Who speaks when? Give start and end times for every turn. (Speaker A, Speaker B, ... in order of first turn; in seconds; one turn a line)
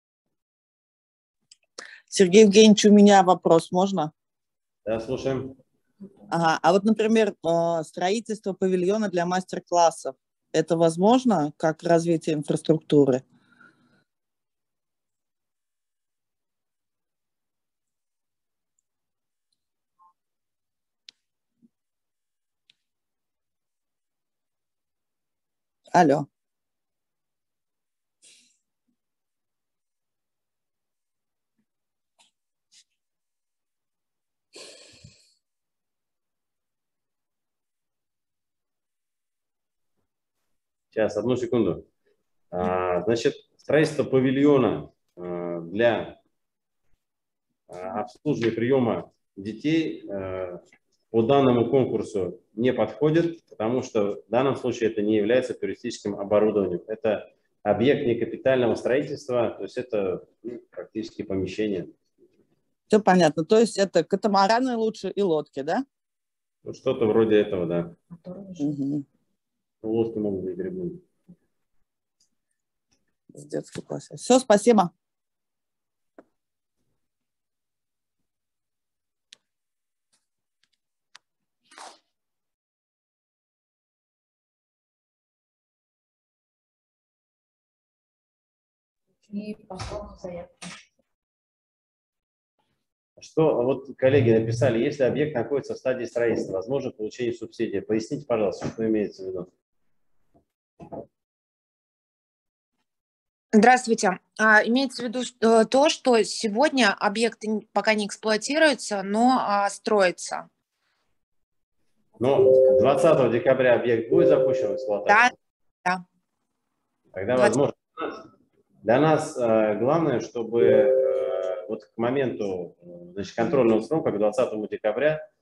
Speaker A: 2.1-4.1
Speaker B: 4.9-5.6
Speaker A: 6.3-13.2
Speaker A: 25.9-26.3
Speaker B: 40.9-41.9
Speaker B: 42.5-46.2
Speaker B: 47.7-61.9
Speaker A: 62.9-65.8
Speaker B: 66.7-68.0
Speaker C: 68.1-68.6
Speaker A: 68.6-69.0
Speaker B: 69.8-71.0
Speaker A: 73.3-74.9
Speaker C: 89.3-90.7
Speaker B: 93.2-99.5
Speaker D: 103.5-110.5
Speaker B: 112.2-115.3
Speaker C: 112.5-113.0
Speaker D: 115.1-115.3
Speaker B: 117.1-118.2
Speaker B: 118.8-125.2